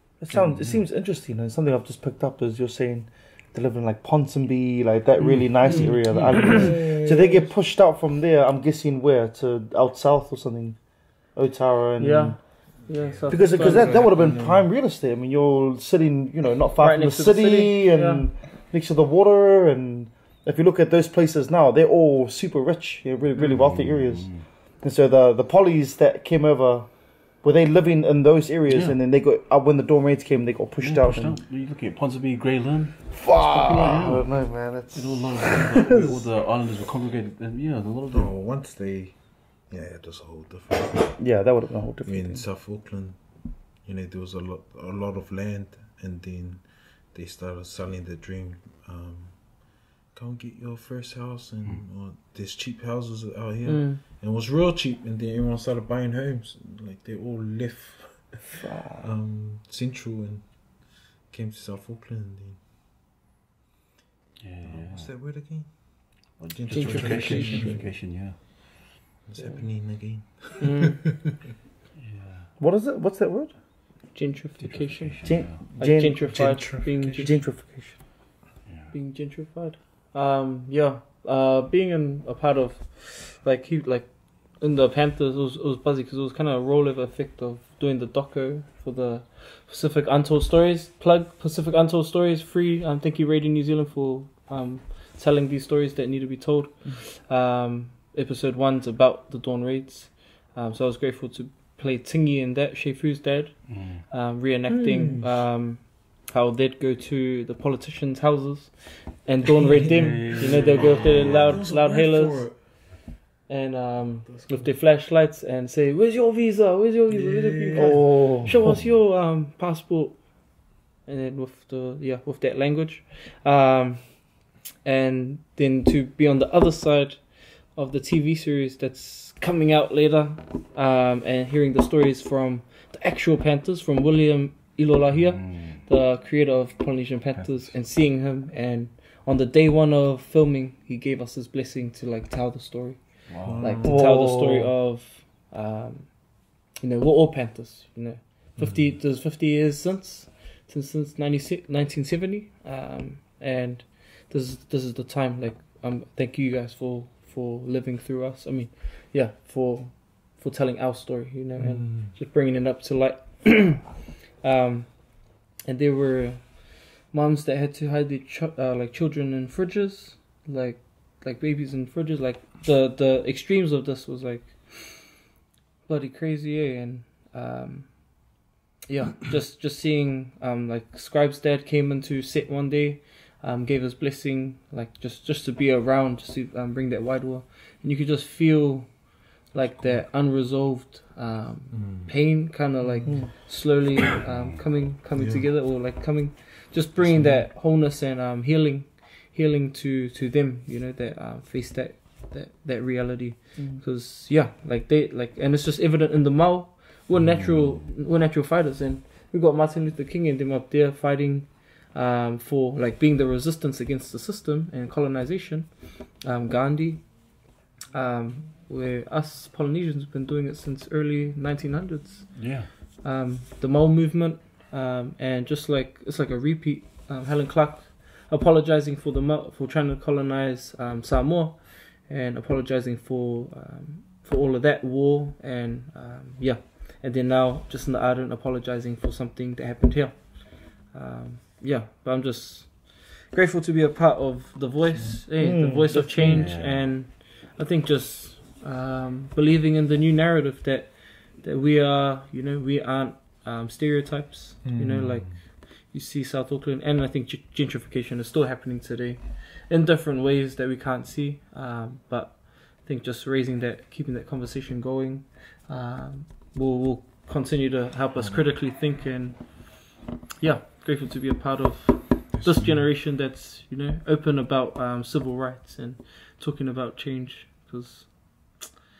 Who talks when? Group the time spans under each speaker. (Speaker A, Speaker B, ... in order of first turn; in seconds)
Speaker A: 0.2-12.4, 13.3-31.4, 33.1-36.2, 41.2-42.4, 58.6-59.0, 72.6-73.6, 75.2-76.4, 77.1-78.0, 104.7-105.2, 117.8-118.5, 143.8-144.7, 193.1-193.3, 203.6-203.8, 245.4-246.5
Speaker B: 0.3-0.8, 5.2-6.7, 13.0-13.4, 23.4-24.5, 28.7-29.0, 30.8-38.3, 64.4-65.3, 66.4-68.4, 72.0-72.5, 74.6-75.6, 76.6-77.5, 78.6-78.9, 103.7-104.0, 109.8-111.6, 135.1-135.8, 137.3-137.8, 143.3-143.7, 207.4-207.7, 222.3-222.7, 246.1-246.9
Speaker C: 5.6-6.7, 12.0-14.2, 16.8-18.3, 53.6-54.0, 66.8-67.7, 69.4-71.1, 74.1-77.6, 78.9-112.9, 113.5-175.2, 175.8-278.6
Speaker D: 6.3-7.5, 12.9-14.7, 38.1-41.5, 42.0-62.6, 64.6-68.1, 69.2-71.0, 76.3-76.7, 105.1-105.4, 109.6-112.6, 117.1-118.5, 143.4-144.2, 161.6-162.1, 191.7-193.3, 195.1-195.5, 197.0-197.5, 244.9-245.2, 254.6-255.4, 268.1-268.4, 272.3-272.9